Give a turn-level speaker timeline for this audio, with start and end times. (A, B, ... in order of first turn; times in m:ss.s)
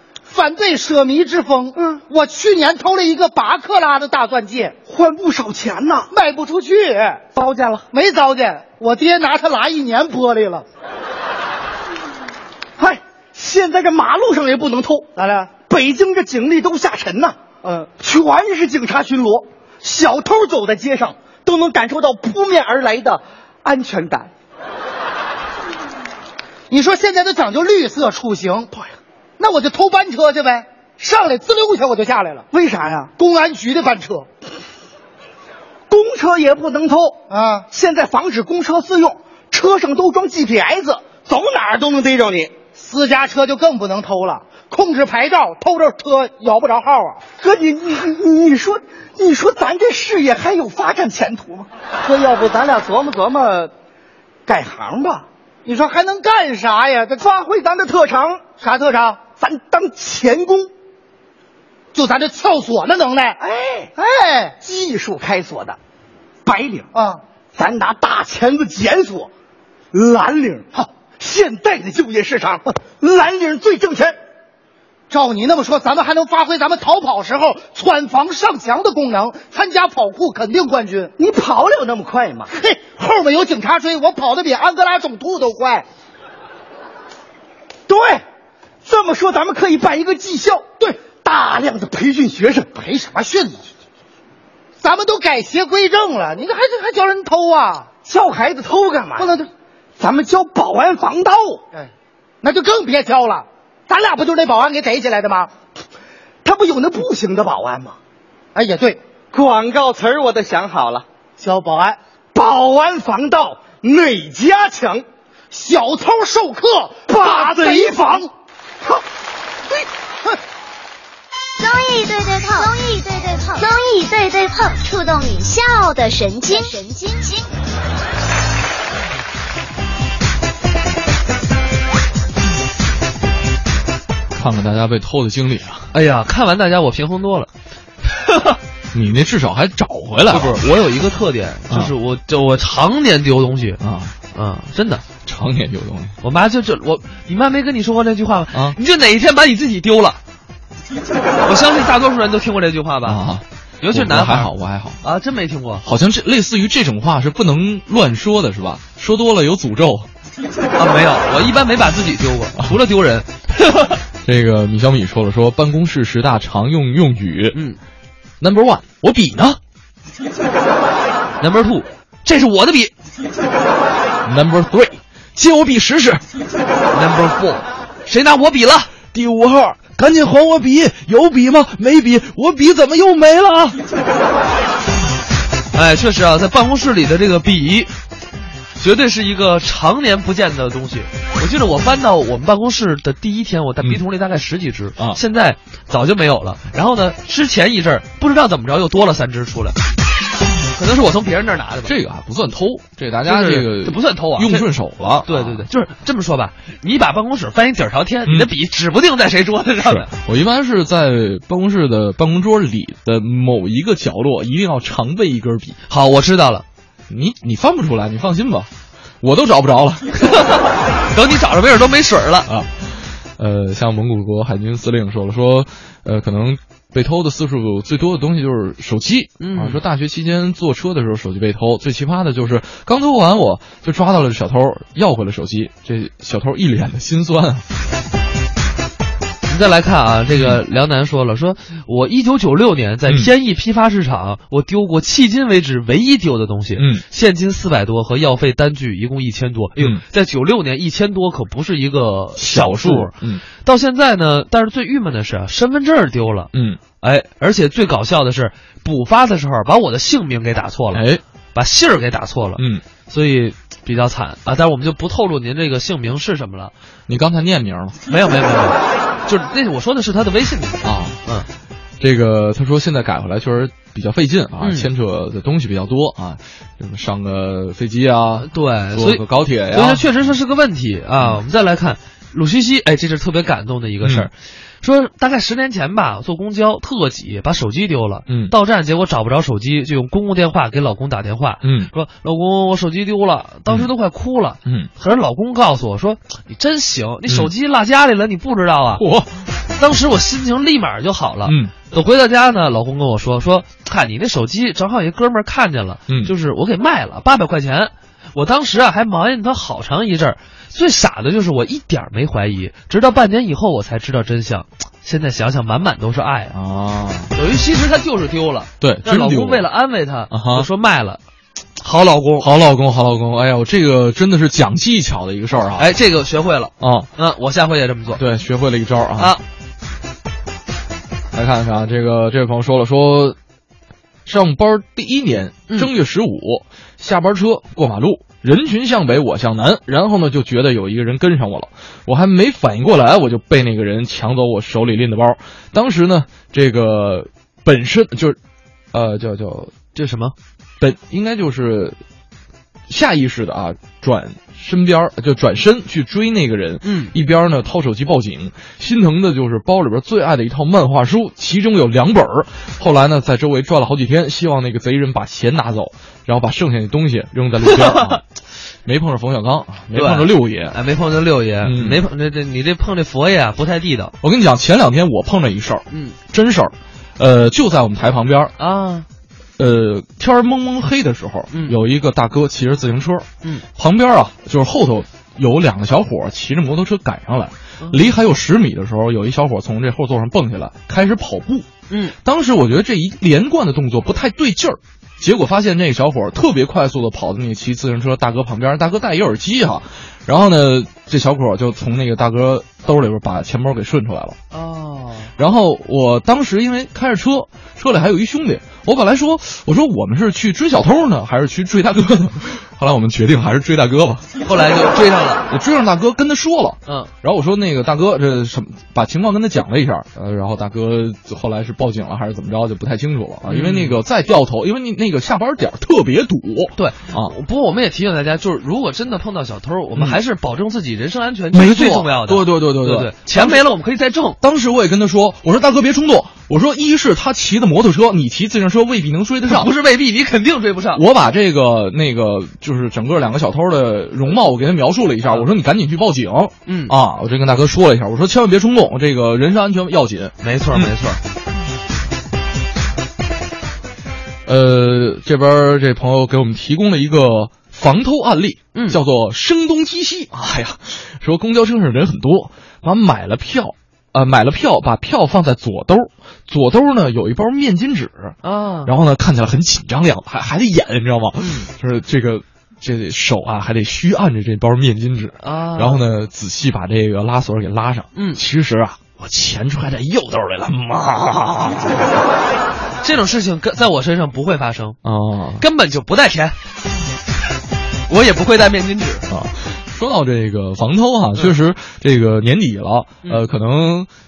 0:00.3-0:04.7 A
0:01.7-0:02.0 B
0:04.9-0:06.1 B
0:06.1-0:07.2 A
0:07.4-0:07.8 B
0:07.9-0:10.6 A
0:12.8-0:15.1 B
0:15.2-0:15.5 A
0:15.7-0:24.3 B
0:26.7-0:28.7 A
0:29.4-0:32.4 A
0:32.5-0:33.1 B
0:33.2-0:34.3 A
0:35.9-0:42.5 B
0:37.3-0:37.7 A
0:42.8-0:47.2 A
0:47.4-0:53.7 B
0:54.5-0:55.2 B
0:55.6-0:57.2 A
0:57.2-0:58.4 B
0:58.6-0:59.2 A
0:59.4-1:00.7 B
1:01.9-1:03.4 A
1:03.4-1:03.9 B
1:04.0-1:04.6 A
1:04.6-1:05.8 B
1:06.4-1:06.9 B
1:06.9-1:07.2 A
1:07.5-1:09.3 B
1:09.9-1:14.2 B
1:15.1-1:21.1 A
1:21.2-1:22.5 B
1:22.5-1:25.8 A
1:27.9-1:28.2 B
1:28.8-1:32.7 B
1:32.7-1:33.6 A
1:34.8-1:37.9 A
1:38.0-1:39.4 B
1:39.2-1:39.5 A
1:40.0-1:41.6 B
1:42.4-1:45.5 A
1:46.4-1:48.0 B
1:48.5-1:49.0 A
1:49.3-1:51.0 B
1:51.4-1:52.0 A
1:52.3-1:55.0 B
1:55.5-1:58.3 A
1:57.1-1:58.3 B
2:01.6-2:07.5 C
2:14.4-2:15.9 D
2:15.9-2:17.5 E
2:18.1-2:18.6 E
2:18.9-2:20.6 D
2:20.3-2:23.8 E
2:23.8-2:24.1 D
2:24.3-2:25.0 E
2:25.2-2:26.2 D
2:26.2-2:30.2 E
2:31.4-2:33.2 E
2:33.0-2:35.0 D
2:33.8-2:34.5 E
2:35.0-2:35.8 E
2:35.8-2:40.1 D
2:40.8-2:44.0 E
2:44.2-2:47.6 D
2:48.4-2:49.6 D
2:51.4-2:52.9 E
2:54.2-2:56.2 D
2:56.9-2:58.9 E
2:59.1-3:03.8 D
3:05.7-3:07.9 E
3:08.8-3:19.8 E
3:20.7-3:21.9 E
3:21.8-3:25.6 D
3:23.2-3:24.7 E
3:25.2-3:30.1 E
3:29.8-3:35.8 D
3:35.9-3:36.6 E
3:37.1-3:38.7 D
3:39.2-3:40.2 D
3:40.2-3:42.5 E
3:42.5-3:57.6 D
3:49.4-3:49.8 E
3:59.5-4:26.7 E
4:06.8-4:07.0 D
4:12.4-4:13.4 D
4:16.5-4:16.8 D
4:20.9-4:21.2 D
4:22.6-4:22.8 D
4:27.1-4:28.0 D
4:28.1-4:31.5 E
4:30.8-4:31.2 D
4:32.0-4:40.1 D
4:34.6-4:34.9 E
4:38.4-4:59.0 E
4:44.0-4:44.3 D
4:51.6-4:51.9 D
4:59.0-4:59.4 D
4:59.7-5:16.6 E
5:01.4-5:01.7 D
5:16.5-5:17.3 D
5:17.3-5:21.2 E
5:18.8-5:19.6 D
5:20.3-5:20.7 D
5:21.8-5:22.5 E
5:22.4-5:25.9 D
5:25.8-5:28.2 E
5:26.8-5:27.1 D
5:28.2-5:29.3 D
5:31.3-5:33.4 D
5:34.2-5:48.4 D
5:48.9-5:49.8 D
5:49.9-5:50.3 E
5:50.8-5:52.0 D
5:52.9-6:08.2 D
5:56.8-5:57.1 E
6:07.6-6:08.2 E
6:08.8-6:10.8 D
6:09.9-6:14.1 E
6:11.6-6:12.0 D
6:14.2-6:18.5 D
6:15.9-6:16.2 E
6:18.6-6:19.0 E
6:19.6-6:31.7 D
6:31.9-6:32.2 E
6:32.2-6:44.4 D
6:44.5-6:45.3 E
6:45.4-6:54.3 D
6:54.4-6:55.4 E
6:55.5-7:07.3 D
7:03.4-7:04.0 E
7:06.8-7:14.4 E
7:11.5-7:13.6 D
7:14.4-7:19.7 D
7:19.4-7:21.0 E
7:20.9-7:30.9 D
7:26.6-7:26.9 E
7:30.4-7:31.2 E
7:34.4-7:48.3 D
7:48.4-7:48.9 E
7:48.8-8:02.1 D
7:51.4-7:51.7 E
7:55.4-7:56.0 E
7:58.1-7:58.4 E
8:03.0-8:05.0 E
8:05.0-8:05.6 D
8:05.6-8:06.5 E
8:08.1-8:09.2 E
8:09.3-8:14.1 D